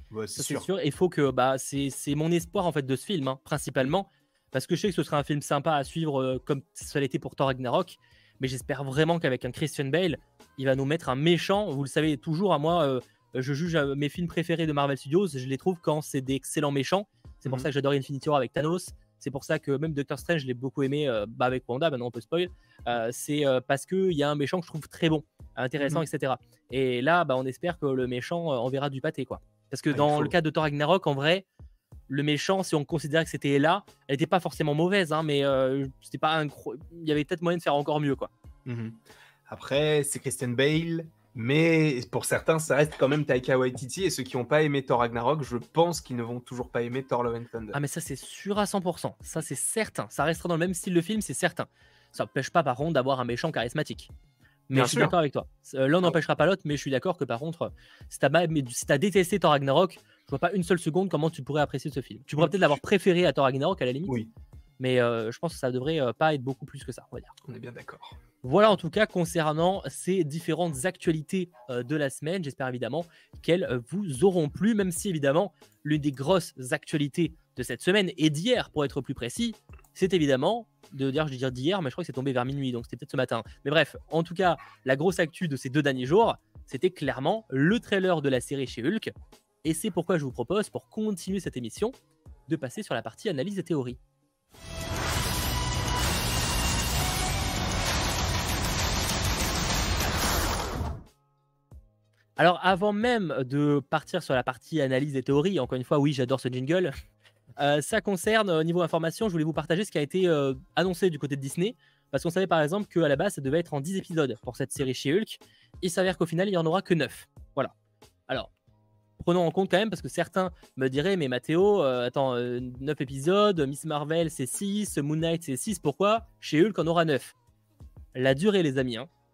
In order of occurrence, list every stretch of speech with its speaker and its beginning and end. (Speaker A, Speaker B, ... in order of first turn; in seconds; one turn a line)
Speaker A: 0.1-0.7
Speaker B: 0.3-31.4
Speaker A: 25.8-26.1
Speaker A: 29.9-30.3
Speaker B: 32.1-38.3
Speaker A: 38.6-47.8
Speaker B: 47.7-54.1
Speaker B: 54.7-64.2
Speaker A: 54.7-55.1
Speaker A: 62.4-62.8
Speaker B: 64.8-67.3
Speaker A: 67.5-68.2
Speaker B: 68.4-89.1
Speaker B: 89.6-91.9
Speaker B: 92.5-94.0
Speaker B: 102.4-106.9
Speaker B: 107.6-117.7
Speaker B: 119.2-127.3
Speaker B: 128.1-129.1